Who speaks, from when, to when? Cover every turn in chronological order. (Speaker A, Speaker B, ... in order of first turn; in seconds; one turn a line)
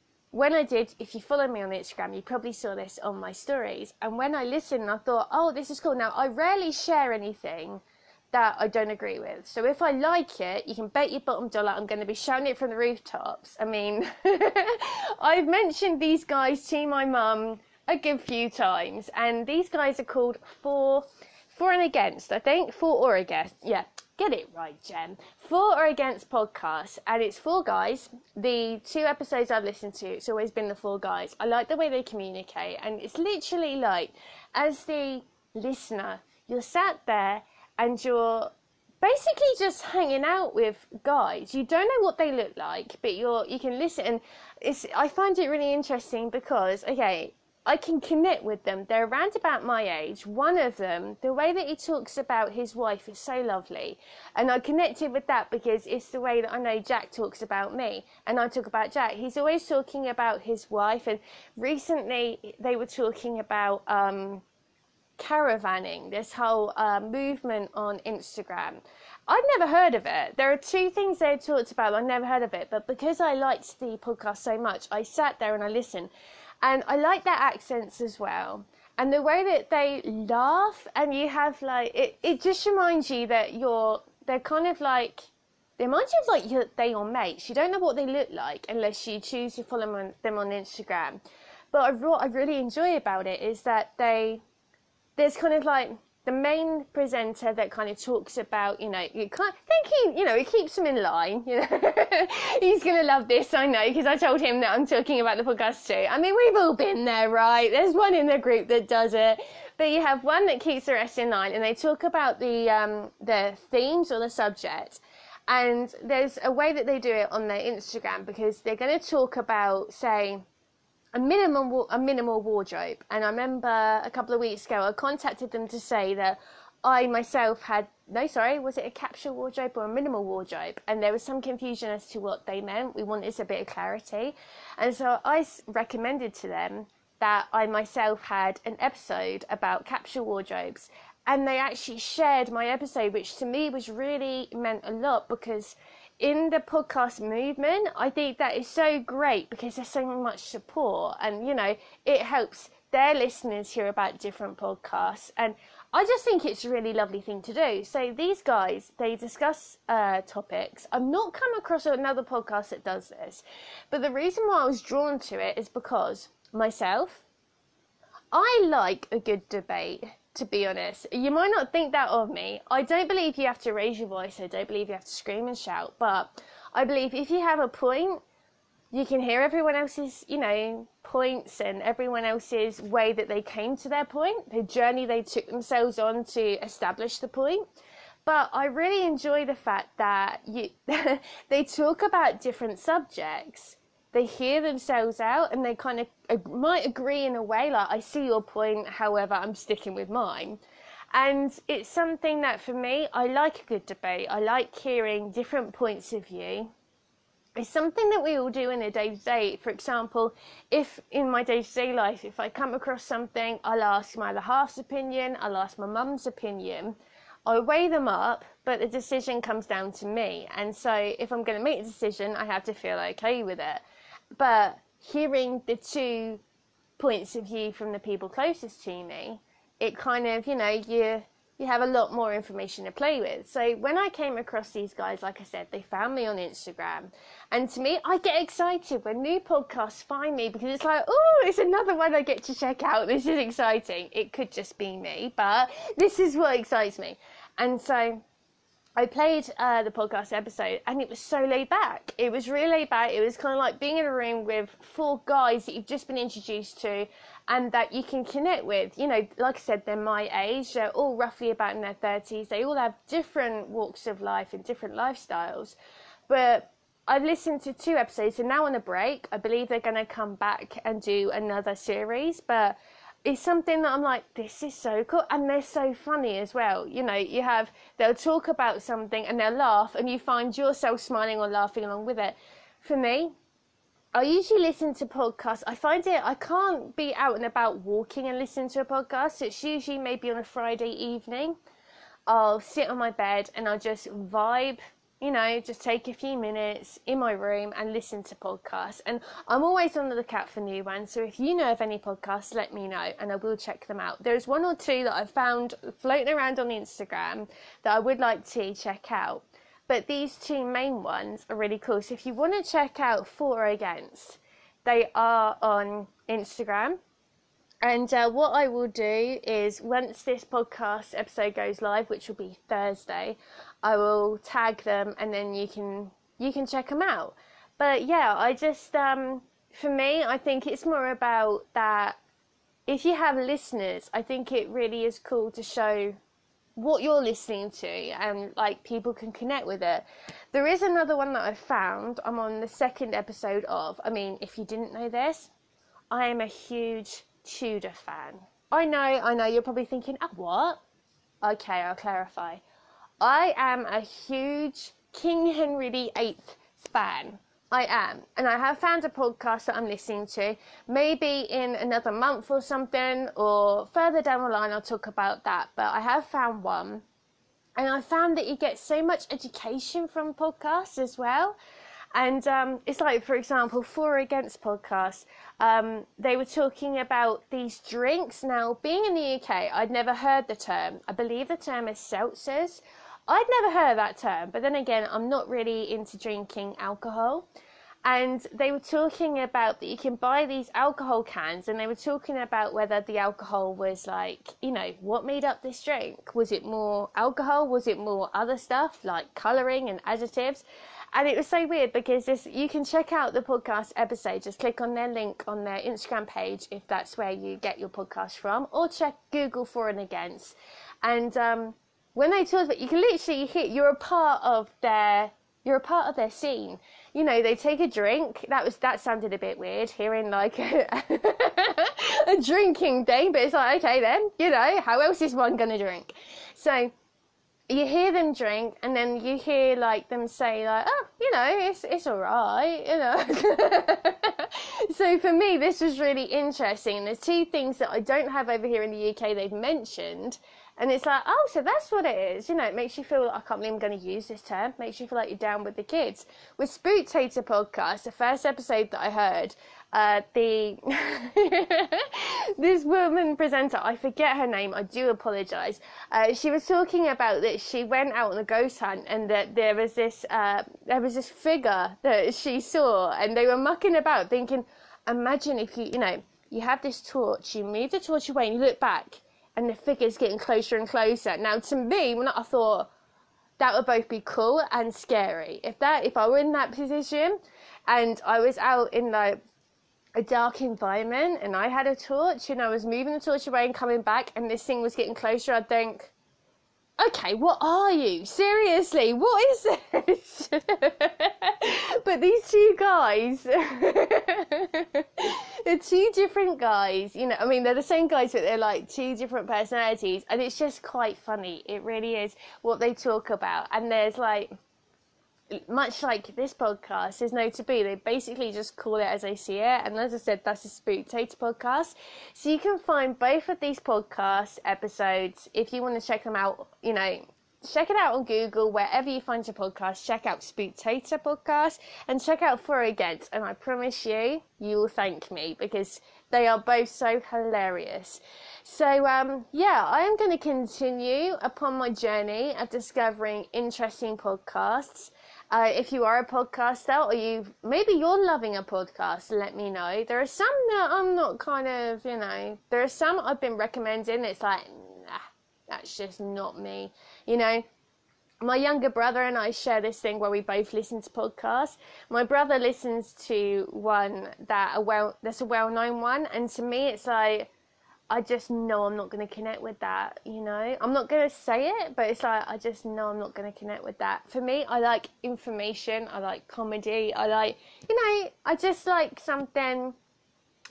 Speaker A: 0.3-64.4
Speaker A: 65.2-76.1
Speaker A: 76.6-91.2
Speaker A: 91.7-94.4
Speaker A: 95.2-120.4
Speaker A: 121.1-167.2
Speaker A: 168.3-178.2
Speaker A: 178.9-187.6
Speaker A: 188.2-200.6
Speaker A: 201.1-206.7
Speaker A: 207.6-223.8
Speaker A: 224.3-226.4
Speaker A: 227.0-248.2
Speaker A: 249.0-265.8
Speaker A: 266.3-283.3
Speaker A: 284.1-291.6
Speaker A: 292.3-317.0
Speaker A: 317.8-332.2
Speaker A: 332.9-336.2
Speaker A: 336.8-345.5
Speaker A: 346.1-350.8
Speaker A: 351.4-352.6
Speaker A: 353.2-367.0
Speaker A: 367.8-371.6
Speaker A: 372.1-387.4
Speaker A: 388.0-426.9
Speaker A: 427.7-472.9
Speaker A: 473.6-479.4
Speaker A: 480.2-486.1
Speaker A: 487.0-504.5
Speaker A: 505.6-547.6
Speaker A: 548.4-557.5
Speaker A: 558.1-569.9